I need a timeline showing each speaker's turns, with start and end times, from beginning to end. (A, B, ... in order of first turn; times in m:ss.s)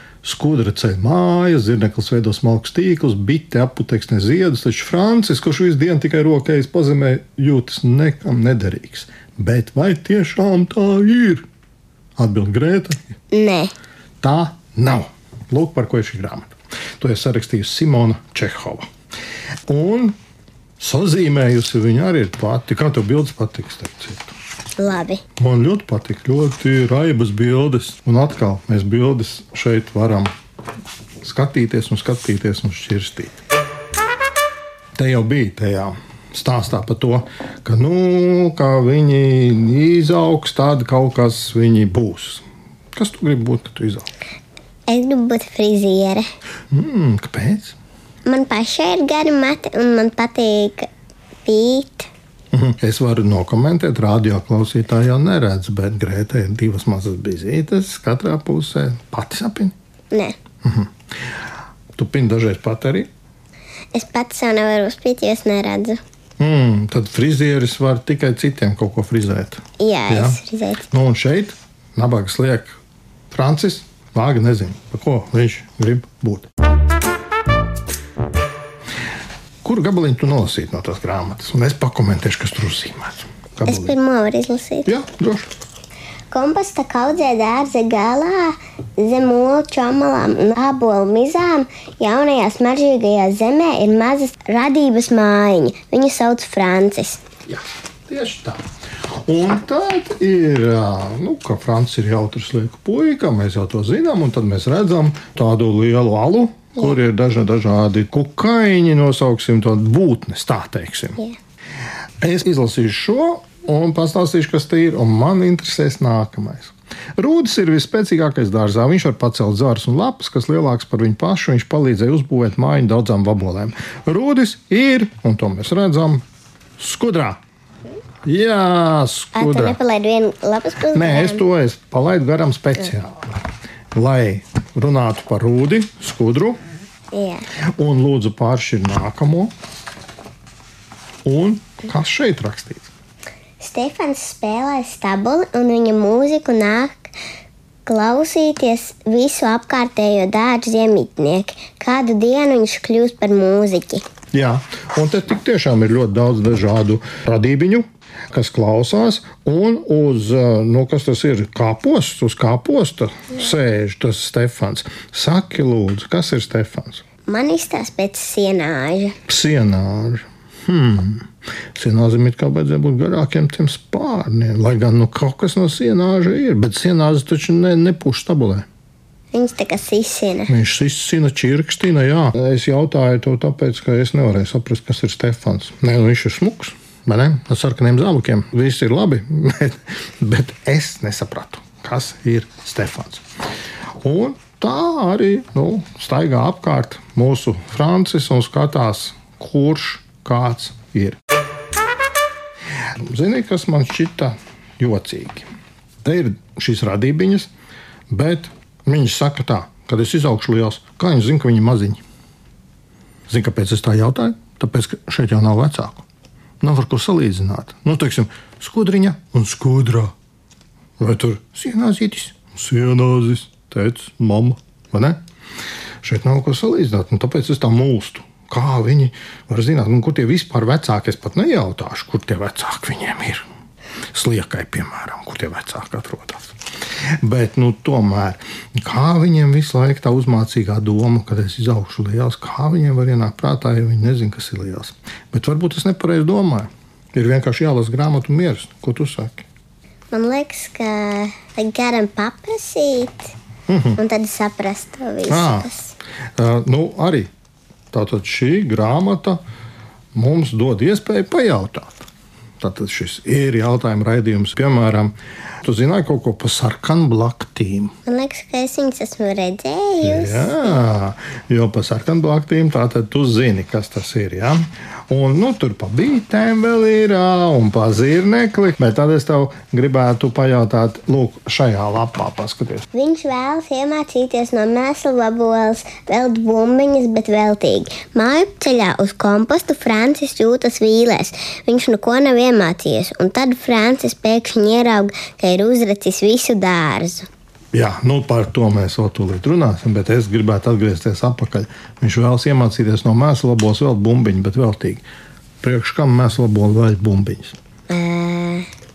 0:00.2-0:11.4 A
0:12.2-0:13.1 A
0:13.3-0:13.7 B
0:14.2-0:18.8 A
0:19.7-0:20.2 A
0:20.8-0:24.3 A
0:24.8-0:25.2 B
0:25.4-0:30.3 A
0:31.2-0:33.4 A
0:35.0-0:44.1 A
0:44.9-0:46.2 B
0:46.7-0:47.8 A
0:48.2-0:50.9 B
0:51.4-0:52.1 B
0:52.5-0:59.7 A
1:00.6-1:00.9 A
1:01.9-1:03.1 A
1:03.9-1:06.0 B
1:06.4-1:10.4 A
1:09.8-1:10.9 B
1:10.9-1:12.8 A
1:13.3-1:16.5 A
1:19.6-1:24.0 A
1:23.6-1:24.9 B
1:24.9-1:25.5 A
1:26.3-1:37.2 B
1:37.5-1:51.2 A
1:52.2-2:06.2 A
2:06.8-2:07.4 A
2:08.2-2:09.8 A
2:09.4-2:11.4 B
2:10.9-2:13.4 A
2:13.9-2:16.6 A
2:17.1-2:17.5 B
2:17.8-2:19.5 A
2:21.2-2:22.9 A
2:23.6-2:27.1 B
2:27.8-2:34.0 B
2:34.3-2:47.0 A
2:47.3-2:49.2 B
2:49.3-2:58.6 A
2:59.3-3:00.5 B
3:00.5-3:13.2 A
3:14.0-3:21.2 A
3:22.9-3:25.5 A
3:26.0-3:27.5 A
3:28.1-3:32.0 A
3:33.3-3:36.0 A
3:36.6-3:40.1 A
3:41.0-3:45.2 A
3:46.0-3:53.4 A
3:54.1-3:56.5 A
3:57.2-4:09.4 A
4:10.1-4:13.3 B
4:13.7-4:14.0 A
4:14.0-4:15.9 B
4:15.3-4:15.7 A
4:16.4-4:17.3 A
4:17.9-4:19.4 A
4:20.1-4:22.1 A
4:22.6-4:27.9 A
4:28.1-4:30.9 B
4:30.0-4:42.9 A
4:42.9-4:57.3 B
4:57.7-5:05.0 A
5:05.6-5:07.5 A
5:07.9-5:08.7 B